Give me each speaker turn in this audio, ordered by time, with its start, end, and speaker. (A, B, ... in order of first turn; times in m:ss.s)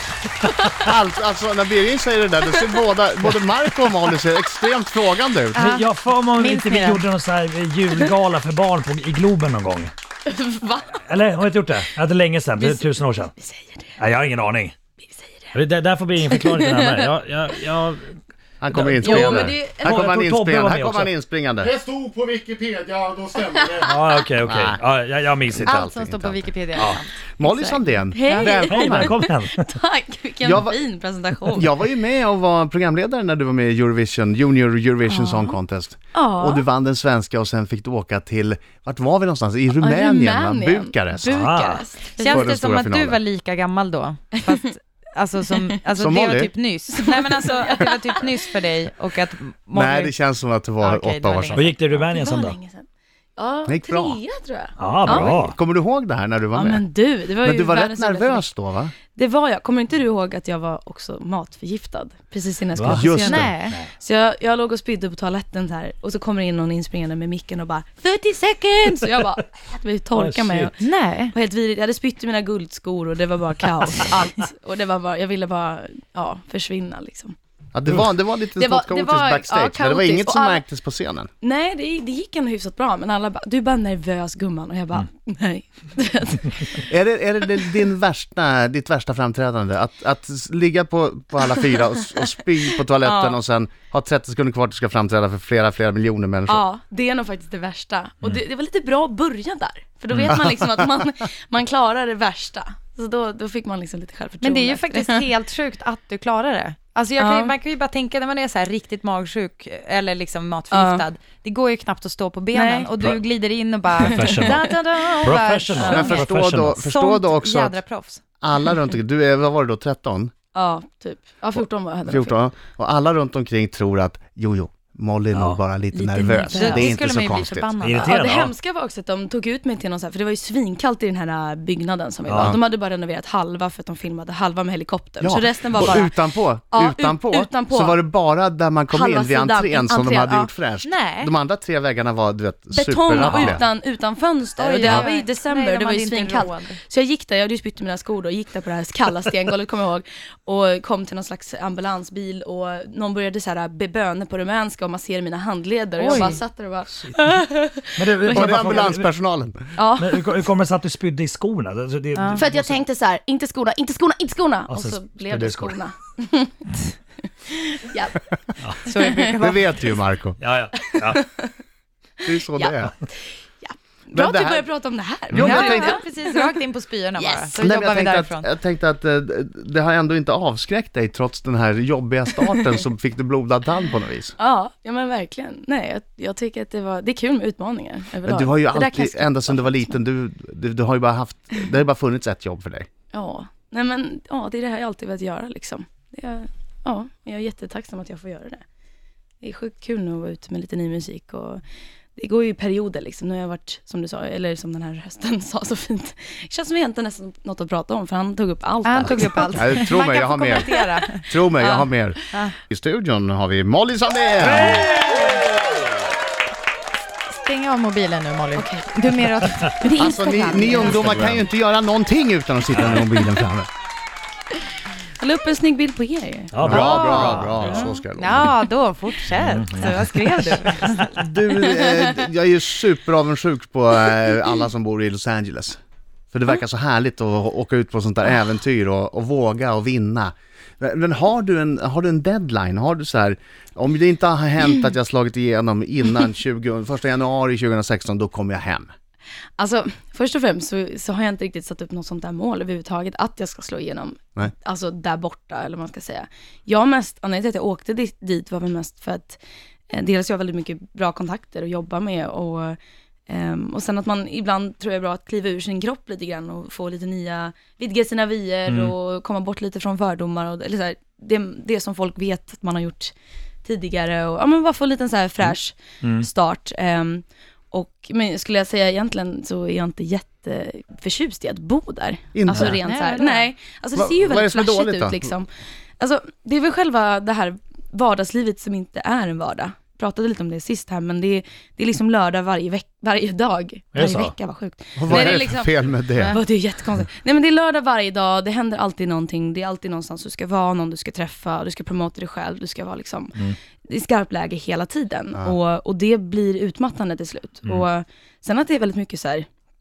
0:00.8-0:05.6 A
0:05.5-0:07.0 B
0:05.6-0:09.9 C
0:10.2-0:11.0 D
0:10.9-0:13.3 C
0:12.6-0:14.0 D
0:14.0-0:14.7 C
0:15.0-0:15.6 D
0:15.5-0:18.2 C
0:16.2-0:17.1 D
0:18.6-0:21.7 A
0:18.7-0:21.1 C
0:19.0-0:19.6 D
0:19.2-0:19.8 B
0:21.6-0:23.9 E
0:23.4-0:23.9 D
0:23.8-0:25.7 C
0:24.4-0:24.8 A
0:25.5-0:26.5 A
0:25.6-0:28.5 B
0:26.8-0:27.0 C
0:27.4-0:29.1 A
0:28.1-0:31.7 D
0:28.4-0:29.7 C
0:30.4-0:30.8 A
0:31.5-0:41.4 A
0:35.1-0:35.6 D
0:36.1-0:36.6 D
0:39.8-0:42.5 D
0:41.3-0:41.8 C
0:42.2-0:50.2 B
0:42.3-0:43.2 A
0:46.0-0:46.5 A
0:46.9-0:48.3 D
0:49.7-0:51.7 A
0:50.8-0:52.0 B
0:51.5-0:52.6 C
0:52.1-0:55.4 D
0:53.6-0:54.2 A
0:54.8-0:55.6 C
0:55.0-0:58.9 A
0:56.5-0:58.5 D
0:59.1-1:17.3 D
1:02.8-1:03.9 C
1:02.9-1:03.6 A
1:03.1-1:03.8 B
1:10.2-1:10.7 C
1:10.8-1:11.3 B
1:17.7-1:21.3 A
1:18.6-1:20.6 D
1:21.4-1:26.9 D
1:26.9-1:36.6 A
1:33.0-1:33.4 D
1:36.5-1:45.3 D
1:44.4-1:58.2 B
1:47.2-1:47.5 D
1:50.7-1:51.0 D
1:52.5-1:52.9 D
1:54.0-1:54.7 C
1:54.2-1:55.1 D
1:55.2-1:56.8 C
1:55.8-1:57.8 A
1:55.8-1:56.1 D
1:58.4-2:00.3 A
2:00.5-2:02.4 D
2:02.0-2:07.7 A
2:05.3-2:05.6 C
2:05.9-2:06.9 D
2:06.5-2:08.1 B
2:07.8-2:08.5 C
2:08.0-2:16.2 D
2:12.3-2:12.6 C
2:12.3-2:12.6 A
2:15.2-2:23.6 A
2:15.7-2:16.0 C
2:16.7-2:18.0 D
2:18.9-2:20.5 D
2:20.8-2:21.3 B
2:22.7-2:38.9 D
2:23.1-2:23.6 C
2:24.6-2:26.8 B
2:36.0-2:36.4 B
2:36.9-2:39.1 C
2:38.3-2:39.6 A
2:39.8-2:40.3 D
2:40.0-2:42.8 C
2:42.1-2:42.4 B
2:42.3-2:46.7 D
2:44.7-2:45.8 C
2:47.2-2:48.2 D
2:48.8-2:49.4 D
2:48.8-2:49.8 B
2:49.4-2:50.4 A
2:50.4-2:51.3 C
2:50.9-2:51.5 D
2:52.2-2:52.9 A
2:52.5-2:56.5 D
2:54.1-2:54.7 A
2:55.3-2:56.0 A
2:55.4-2:58.5 B
2:57.2-2:57.5 D
2:57.6-3:04.3 A
3:04.4-3:10.0 D
3:08.2-3:12.9 A
3:13.1-3:18.6 D
3:19.4-3:21.6 D
3:22.1-3:29.8 D
3:28.8-3:31.2 B
3:29.5-3:34.9 A
3:30.5-3:32.4 D
3:34.4-3:35.5 C
3:37.3-3:39.9 B
3:38.6-3:41.4 D
3:40.0-3:43.7 A
3:40.6-3:41.3 B
3:42.7-3:43.3 C
3:45.2-3:46.6 D
3:46.5-3:47.9 C
3:46.6-3:48.6 A
3:46.7-3:51.4 B
3:47.6-3:48.0 D
3:49.3-3:50.3 C
3:51.2-3:55.8 A
3:51.6-3:52.2 D
3:56.3-4:08.9 A
4:09.6-5:09.5 D
4:28.7-4:28.9 C
4:36.0-4:36.3 C
4:42.3-4:42.8 A
4:42.8-4:43.4 B
4:43.9-4:45.3 A
4:53.9-4:54.3 C
4:55.0-4:56.4 A